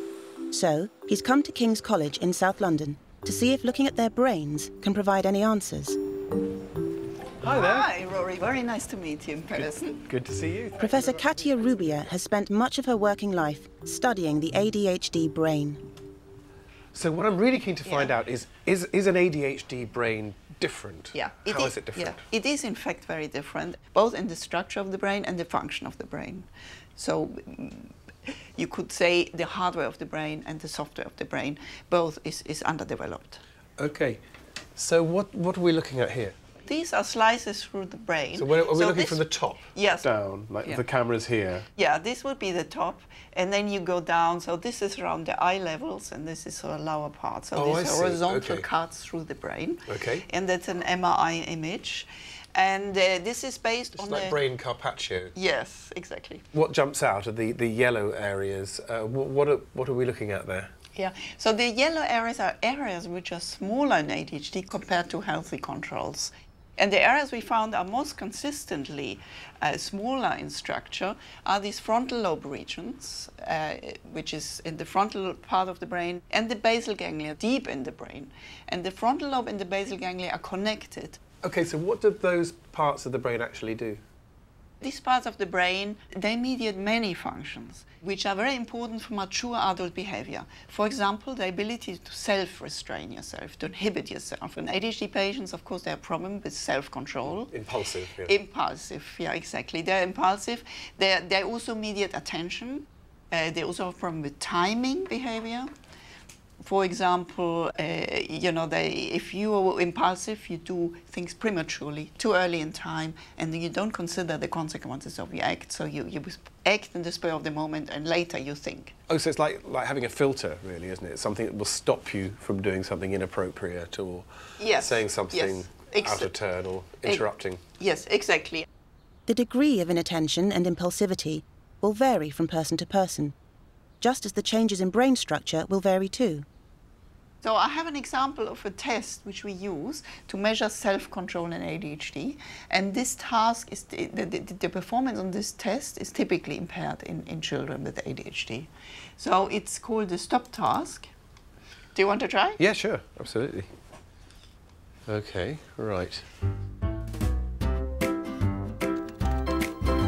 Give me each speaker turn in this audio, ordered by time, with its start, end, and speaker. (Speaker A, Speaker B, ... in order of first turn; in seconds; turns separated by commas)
Speaker A: 0.5-6.0, Speaker B: 7.4-7.9, Speaker C: 7.4-10.1, Speaker B: 9.5-11.7, Speaker A: 10.8-15.8, Speaker B: 16.9-22.2, Speaker C: 17.8-18.1, Speaker C: 21.1-33.4, Speaker B: 33.8-34.2, Speaker B: 34.8-36.4, Speaker C: 36.6-40.8, Speaker B: 38.3-41.7, Speaker C: 41.8-54.4, Speaker B: 47.5-48.7, Speaker B: 49.9-50.2, Speaker B: 53.9-55.3, Speaker C: 55.3-56.4, Speaker B: 56.5-60.7, Speaker C: 60.9-81.2, Speaker B: 81.4-84.0, Speaker C: 84.8-97.6, Speaker B: 97.2-98.3, Speaker C: 98.2-105.7, Speaker C: 106.6-119.0, Speaker B: 119.1-127.6, Speaker C: 124.6-126.3, Speaker C: 127.0-128.7, Speaker A: 129.3-133.3, Speaker A: 134.0-136.4, Speaker C: 137.4-151.1, Speaker C: 151.9-152.6, Speaker B: 152.6-153.7, Speaker B: 155.1-156.2